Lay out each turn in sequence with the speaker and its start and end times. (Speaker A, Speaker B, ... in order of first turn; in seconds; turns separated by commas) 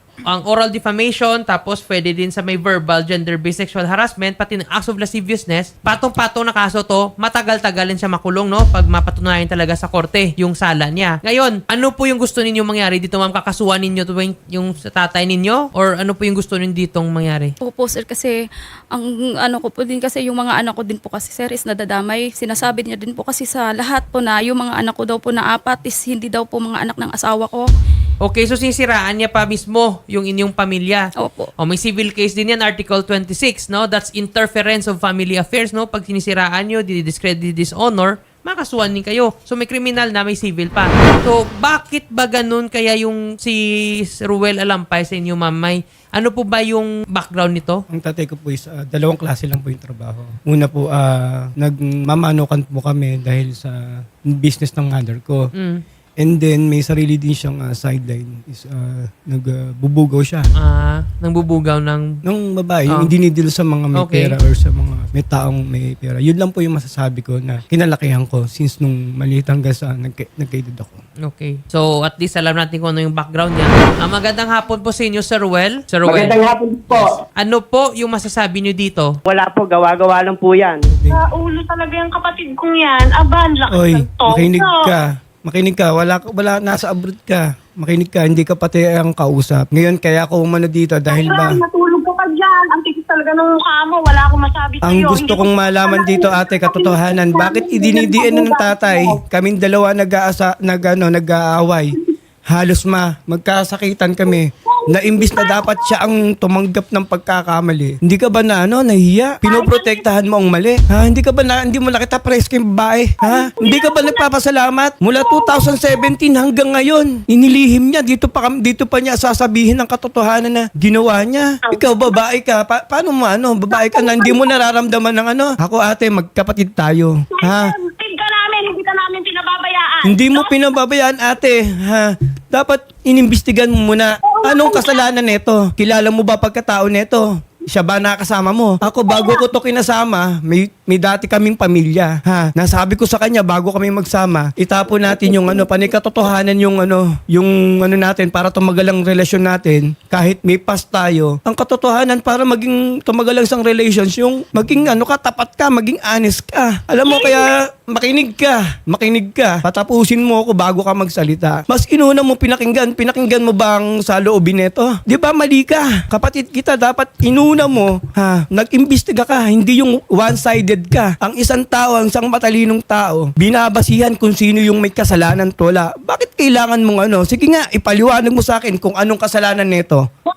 Speaker A: 0.3-17.5, Speaker B: 17.6-18.3, Speaker B: 18.9-27.6, Speaker A: 28.2-31.1, Speaker B: 31.2-31.5, Speaker A: 31.6-43.6, Speaker A: 44.2-47.8, Speaker C: 47.9-55.4, Speaker A: 55.5-55.8, Speaker C: 56.2-60.5, Speaker A: 60.6-62.1, Speaker C: 62.2-71.0, Speaker A: 64.0-64.3, Speaker A: 71.2-79.1, Speaker D: 76.2-77.1, Speaker D: 79.4-80.8, Speaker C: 80.9-81.2, Speaker E: 81.1-84.9, Speaker C: 83.7-91.6, Speaker E: 91.1-99.2, Speaker C: 94.8-102.0, Speaker C: 102.5-127.7, Speaker E: 105.1-105.8, Speaker E: 109.5-110.0, Speaker E: 113.2-114.2, Speaker E: 115.2-116.0, Speaker E: 121.7-122.0, Speaker E: 123.7-124.5, Speaker E: 127.4-130.5, Speaker C: 130.0-180.0, Speaker E: 134.2-135.0, Speaker E: 139.1-139.4